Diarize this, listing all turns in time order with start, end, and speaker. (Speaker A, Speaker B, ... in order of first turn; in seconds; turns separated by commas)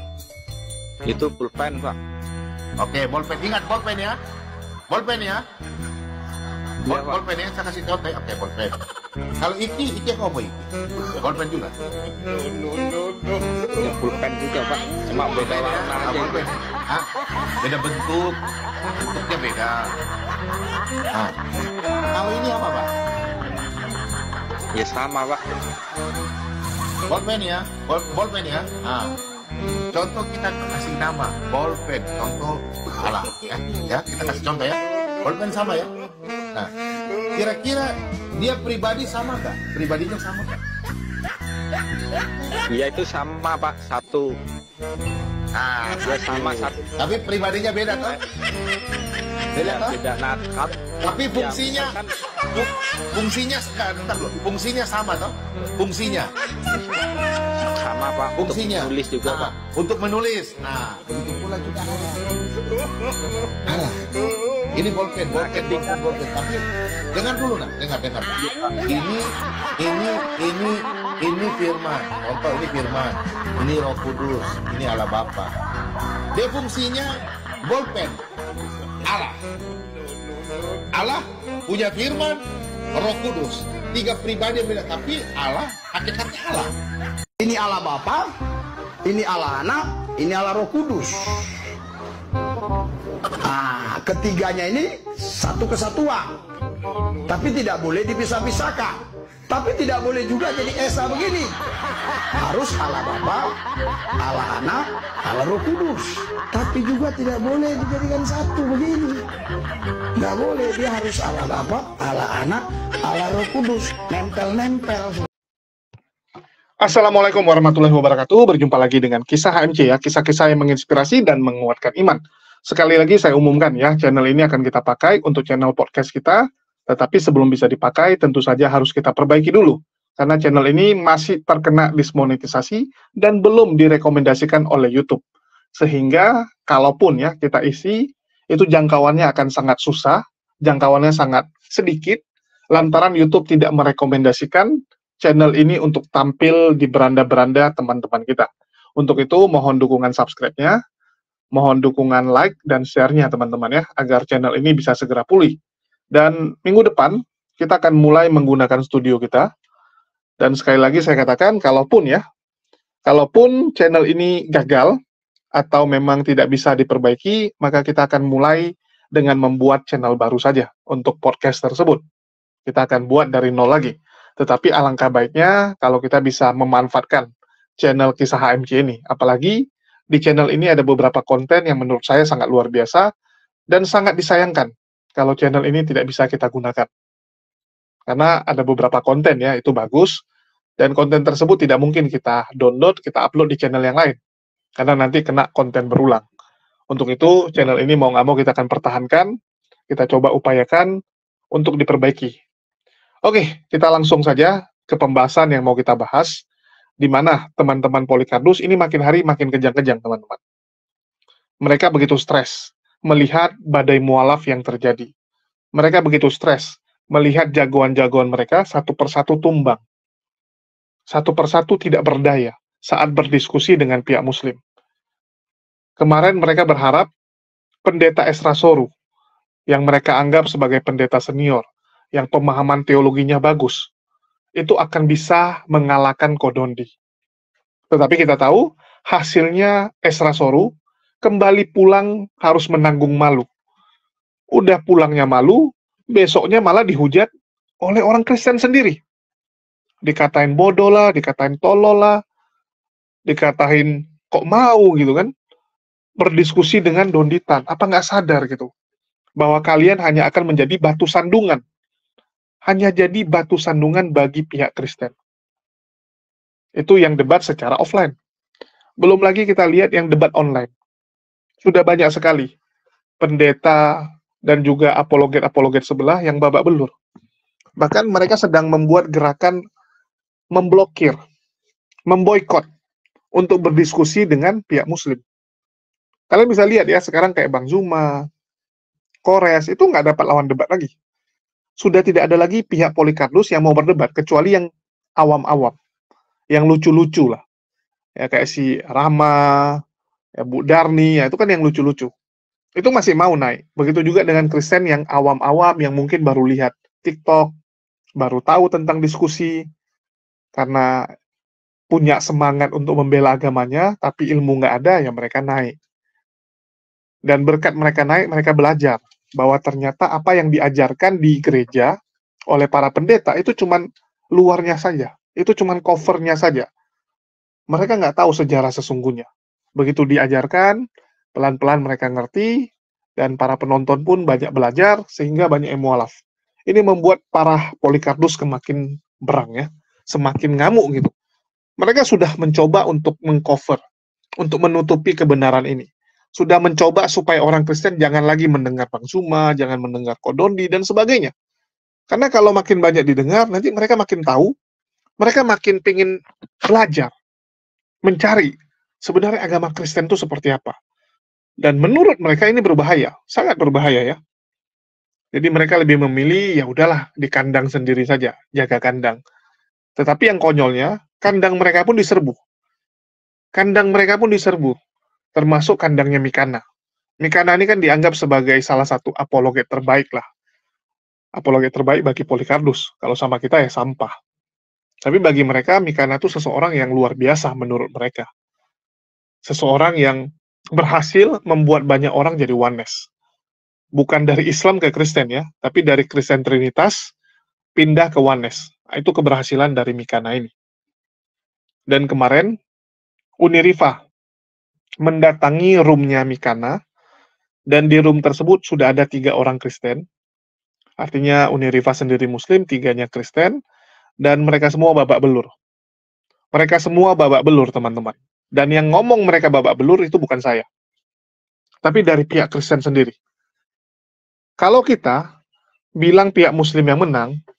Speaker A: 1.1-2.0, Speaker B: 2.8-4.2, Speaker B: 4.9-5.4, Speaker B: 6.9-8.7, Speaker A: 6.9-7.2, Speaker B: 9.4-10.5, Speaker B: 11.2-11.7, Speaker A: 13.8-16.6, Speaker B: 15.1-17.1, Speaker B: 17.6-18.4, Speaker B: 19.0-19.9, Speaker B: 22.1-22.9, Speaker A: 24.7-25.4, Speaker B: 27.1-29.1, Speaker B: 29.9-35.9, Speaker B: 37.3-40.6, Speaker A: 42.7-44.4, Speaker B: 45.5-48.2, Speaker A: 46.0-46.8, Speaker A: 47.9-48.2, Speaker B: 49.5-50.0, Speaker A: 49.6-52.1, Speaker B: 51.0-52.0, Speaker B: 52.5-56.3, Speaker A: 57.7-59.6, Speaker B: 58.4-62.2, Speaker B: 63.7-64.0, Speaker B: 64.7-66.6, Speaker A: 65.3-66.2, Speaker B: 67.1-69.2, Speaker A: 68.4-68.9, Speaker B: 69.8-75.5, Speaker B: 76.3-78.2, Speaker B: 79.0-79.4, Speaker B: 80.9-86.7, Speaker C: 87.4-88.3, Speaker C: 89.0-91.4, Speaker C: 93.5-96.3, Speaker C: 97.3-101.6, Speaker C: 102.4-103.5, Speaker C: 104.2-109.2, Speaker C: 110.2-115.3, Speaker D: 116.8-135.2, Speaker D: 135.8-138.0, Speaker D: 138.5-142.2, Speaker D: 142.7-144.7, Speaker D: 145.2-150.8, Speaker D: 151.6-155.6, Speaker D: 156.1-159.5, Speaker D: 160.4-162.2, Speaker D: 163.1-164.9, Speaker D: 165.6-172.0, Speaker D: 172.7-177.3, Speaker D: 177.8-179.6, Speaker D: 180.1-183.1, Speaker D: 183.7-186.9, Speaker D: 188.1-190.2, Speaker D: 190.8-194.2, Speaker D: 194.8-196.2, Speaker D: 196.9-199.3, Speaker D: 199.9-200.9, Speaker D: 201.6-202.3, Speaker D: 203.3-206.3, Speaker D: 207.0-210.4, Speaker D: 211.6-215.1, Speaker D: 215.8-219.8, Speaker D: 221.1-224.6, Speaker D: 226.0-227.1, Speaker D: 227.9-228.9, Speaker D: 229.7-233.9, Speaker D: 234.6-236.9, Speaker D: 237.9-240.7, Speaker D: 241.2-243.5, Speaker D: 244.6-245.6, Speaker D: 246.2-247.3, Speaker D: 247.8-249.0, Speaker D: 250.1-252.2, Speaker D: 253.3-255.3, Speaker D: 256.2-258.7, Speaker D: 259.4-261.6, Speaker D: 262.7-265.1, Speaker D: 266.8-268.1, Speaker D: 269.0-270.7, Speaker D: 271.6-272.5, Speaker D: 273.2-273.8, Speaker D: 274.4-276.9, Speaker D: 277.8-279.6, Speaker D: 280.6-281.2, Speaker D: 282.1-282.6, Speaker D: 283.4-285.2, Speaker D: 286.3-288.1, Speaker D: 289.2-290.9, Speaker D: 291.8-294.7, Speaker D: 295.2-295.8, Speaker D: 296.5-297.4, Speaker D: 298.2-299.4, Speaker D: 300.4-302.1, Speaker D: 302.8-307.5, Speaker D: 308.2-309.5, Speaker D: 310.6-310.9, Speaker D: 311.9-315.8, Speaker D: 317.3-321.9, Speaker D: 322.5-323.8, Speaker D: 324.4-326.7, Speaker D: 327.7-330.8, Speaker D: 331.4-332.5, Speaker D: 333.2-336.2, Speaker D: 336.7-341.1, Speaker D: 341.8-343.8, Speaker D: 344.4-351.3, Speaker D: 352.1-354.5, Speaker D: 355.2-356.1, Speaker D: 356.7-357.1, Speaker D: 358.1-358.5, Speaker D: 359.1-360.8, Speaker D: 361.6-364.2, Speaker D: 365.3-369.2, Speaker D: 370.0-372.4, Speaker D: 373.6-374.8, Speaker D: 375.4-376.6, Speaker D: 377.2-380.2, Speaker D: 381.4-384.1, Speaker D: 385.0-388.3, Speaker D: 389.5-390.2, Speaker D: 390.8-393.1, Speaker D: 394.0-397.1, Speaker D: 397.8-400.5, Speaker D: 401.9-402.5, Speaker D: 403.4-404.0, Speaker D: 405.0-406.8, Speaker D: 407.7-410.0, Speaker D: 411.0-413.6, Speaker D: 414.2-415.5, Speaker D: 416.5-420.7, Speaker D: 421.8-423.1, Speaker D: 424.6-425.2, Speaker D: 426.0-427.3